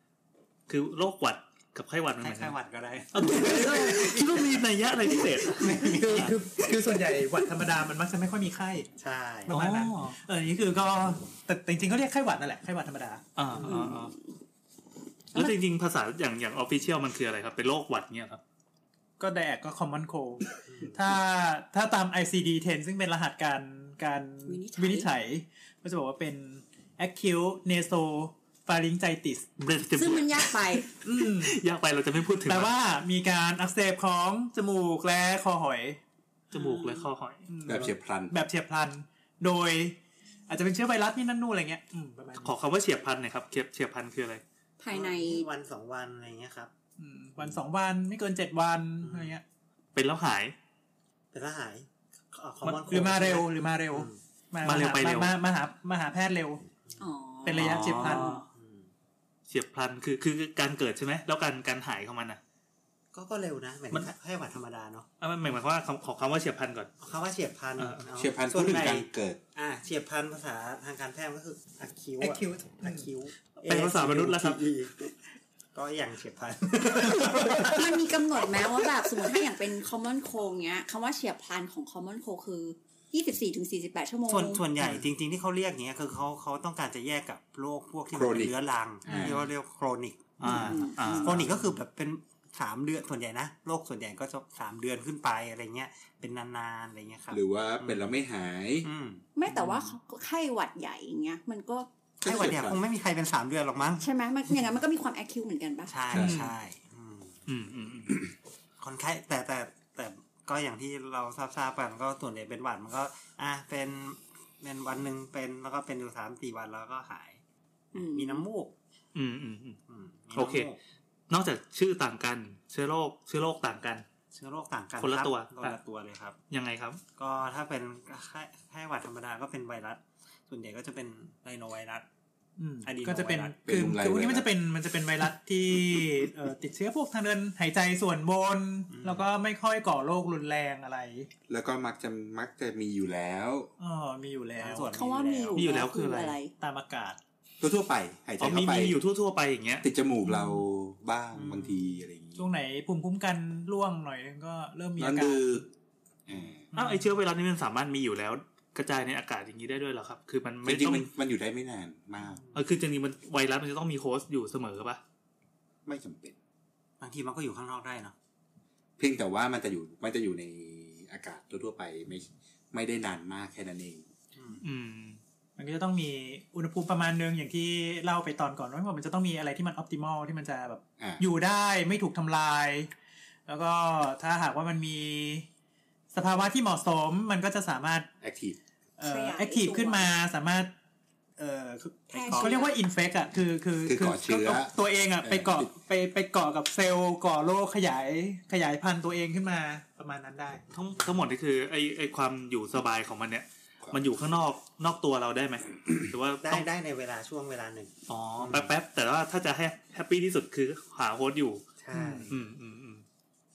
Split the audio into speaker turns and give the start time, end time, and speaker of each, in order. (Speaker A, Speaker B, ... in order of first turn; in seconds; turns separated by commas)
Speaker A: 0.7-2.5, Speaker B: 2.2-4.6, Speaker A: 3.1-6.3, Speaker B: 5.5-6.4, Speaker C: 5.9-8.9, Speaker B: 9.0-9.5, Speaker C: 9.5-13.2, Speaker A: 9.5-10.1, Speaker A: 13.3-14.1, Speaker B: 13.5-13.9, Speaker D: 13.6-14.3, Speaker A: 15.3-18.4, Speaker C: 19.2-29.5, Speaker D: 24.5-25.1, Speaker A: 29.6-32.7, Speaker D: 29.9-30.9, Speaker C: 31.0-31.6, Speaker C: 32.5-36.0, Speaker A: 36.5-37.5, Speaker C: 36.5-40.0, Speaker E: 37.6-38.3, Speaker C: 40.5-42.5, Speaker A: 42.4-44.4, Speaker D: 44.8-45.5, Speaker B: 44.9-46.7, Speaker C: 47.0-49.4, Speaker B: 49.0-49.3, Speaker A: 49.9-50.5, Speaker B: 51.3-54.2, Speaker A: 52.6-53.2, Speaker C: 52.9-56.6, Speaker A: 54.6-55.4, Speaker D: 57.0-58.4, Speaker C: 57.4-58.4, Speaker A: 57.6-58.4, Speaker B: 58.5-58.9, Speaker A: 59.5-62.4, Speaker B: 63.1-65.1, Speaker A: 65.2-66.9, Speaker B: 67.0-75.2, Speaker A: 67.8-68.0, Speaker E: 68.2-69.4, Speaker C: 72.2-73.1, Speaker A: 73.6-74.6, Speaker B: 75.7-77.9, Speaker C: 76.9-77.7, Speaker D: 77.6-84.6, Speaker B: 84.2-98.1, Speaker E: 88.1-88.5, Speaker A: 89.1-89.5, Speaker E: 89.1-89.3, Speaker A: 90.4-91.5, Speaker D: 90.4-91.5, Speaker E: 97.3-98.9, Speaker B: 98.8-99.8, Speaker D: 99.3-101.9, Speaker E: 102.2-102.8, Speaker B: 102.2-104.1, Speaker D: 104.0-106.3, Speaker B: 105.8-107.3, Speaker A: 106.1-106.5, Speaker A: 107.5-108.2, Speaker B: 108.8-117.4, Speaker B: 117.9-118.7, Speaker D: 117.9-118.4, Speaker A: 119.1-119.8, Speaker B: 119.9-120.8, Speaker A: 120.3-120.7, Speaker A: 121.3-124.0, Speaker B: 124.3-126.3, Speaker A: 125.0-125.8, Speaker A: 126.5-127.0, Speaker B: 127.2-132.1, Speaker C: 132.6-141.3, Speaker B: 132.8-133.5, Speaker E: 133.7-134.5, Speaker B: 138.9-139.3, Speaker E: 141.5-143.7, Speaker C: 143.8-144.9, Speaker B: 144.6-145.7, Speaker D: 144.9-146.5, Speaker A: 145.6-146.4, Speaker C: 146.6-147.2, Speaker E: 147.6-149.0, Speaker A: 148.4-149.9, Speaker E: 149.8-152.5, Speaker C: 150.2-150.5, Speaker B: 151.3-152.1, Speaker C: 152.3-155.6, Speaker E: 155.0-155.7, Speaker E: 156.3-156.7, Speaker C: 156.7-157.1, Speaker A: 156.7-161.1, Speaker E: 160.6-162.4, Speaker A: 162.5-165.0, Speaker E: 165.8-166.3, Speaker B: 167.0-168.1, Speaker E: 169.0-174.0, Speaker B: 174.3-174.6, Speaker A: 174.6-175.2, Speaker C: 175.6-182.9, Speaker C: 183.5-185.4, Speaker C: 186.1-188.1, Speaker E: 188.2-188.6, Speaker C: 189.0-190.7, Speaker D: 189.0-190.1, Speaker C: 191.4-200.6, Speaker B: 192.1-192.6, Speaker D: 192.1-192.7, Speaker E: 193.8-195.7, Speaker A: 200.7-206.7, Speaker B: 206.4-208.7, Speaker A: 208.1-213.0, Speaker B: 211.8-212.3, Speaker C: 211.9-212.2